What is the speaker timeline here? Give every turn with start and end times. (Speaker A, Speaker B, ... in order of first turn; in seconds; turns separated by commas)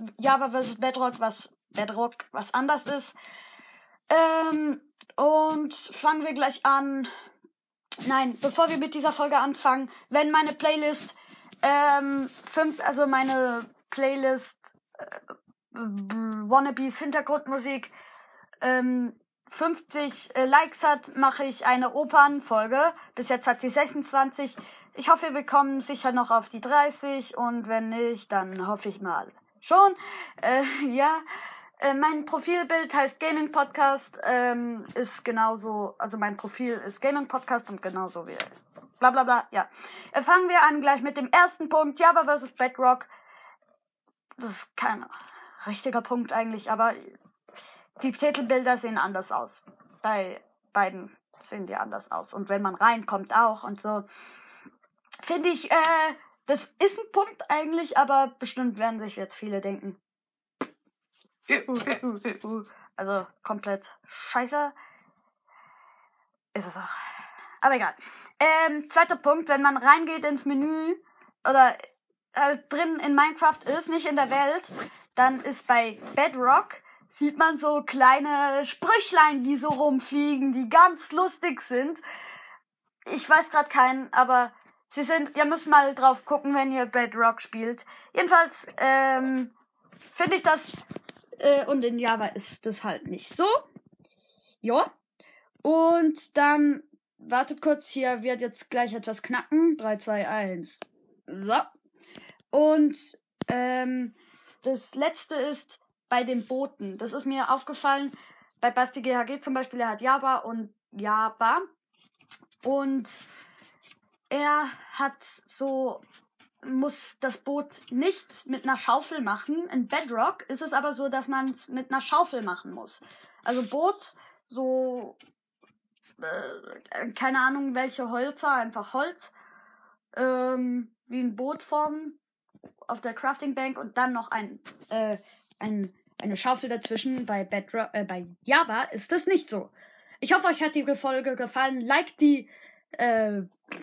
Speaker A: 0.2-3.1, Speaker A: 4.1-7.1, Speaker A: 8.0-15.2, Speaker A: 15.7-17.9, Speaker A: 18.6-31.2, Speaker A: 31.8-38.5, Speaker A: 39.0-43.1, Speaker A: 44.4-47.1, Speaker A: 48.0-54.0, Speaker A: 55.2-60.0, Speaker A: 61.5-64.7, Speaker A: 66.5-66.9, Speaker A: 67.6-71.8, Speaker A: 72.3-82.0, Speaker A: 83.1-89.5, Speaker A: 90.1-90.7, Speaker A: 91.4-93.5, Speaker A: 94.6-94.9, Speaker A: 95.6-101.7, Speaker A: 102.5-111.7, Speaker A: 112.6-113.2, Speaker A: 114.3-116.0, Speaker A: 116.6-125.2, Speaker A: 126.2-129.3, Speaker A: 130.2-132.2, Speaker A: 132.9-143.5